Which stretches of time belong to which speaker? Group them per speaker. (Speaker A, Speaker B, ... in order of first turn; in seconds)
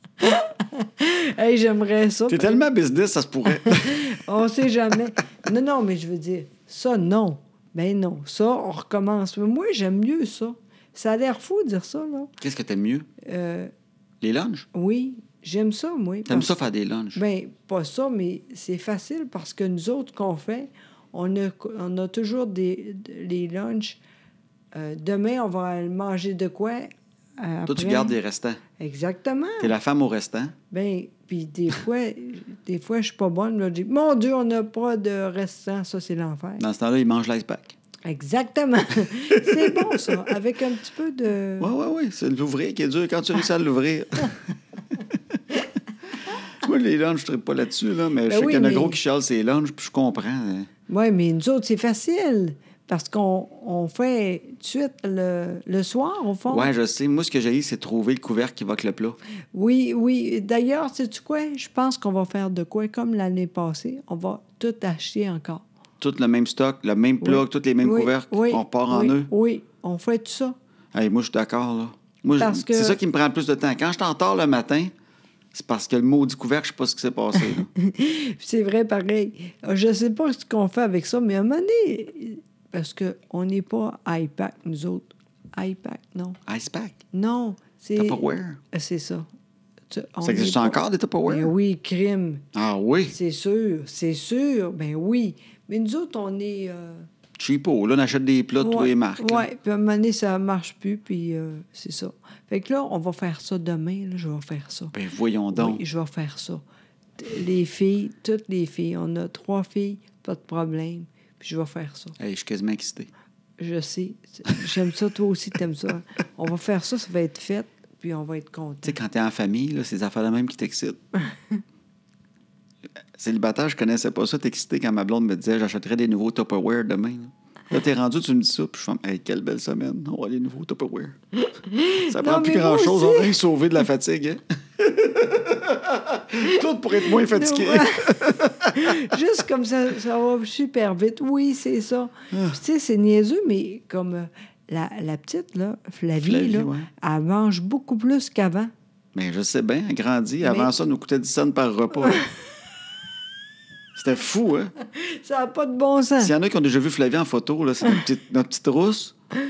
Speaker A: 0.2-2.6, 3.5-12.3, 13.2-13.7, 14.7-16.6, 17.1-24.0, 24.7-28.1, 28.8-29.7, 30.7-36.6, 38.0-41.7, 48.3-49.0, 50.9-56.7, 59.5-65.6, 67.2-70.5, 72.4-73.0, 77.8-86.4, 87.1-89.2, 89.9-92.4, 93.1-97.1, 98.6-104.9, 105.5-106.6, 107.2-112.2, 113.6-119.0, 131.5-133.4, 136.4-148.7, 150.4-150.7, 152.0-152.3, 154.8-156.3
Speaker B: 2.3-4.2, 12.4-13.1, 14.2-14.7, 16.3-17.2, 27.7-28.6, 29.6-30.5, 36.6-37.8, 39.4-40.2, 41.6-44.4, 46.6-50.7, 56.5-59.2, 66.0-69.3, 70.9-74.9, 75.5-77.7, 86.5-87.0, 88.0-88.6, 90.2-91.5, 92.5-93.1, 97.4-99.5, 104.9-105.8, 112.2-113.1, 118.8-121.0, 123.2-131.2, 132.1-139.1, 146.2-146.9, 149.1-152.2, 153.9-154.7, 156.2-159.1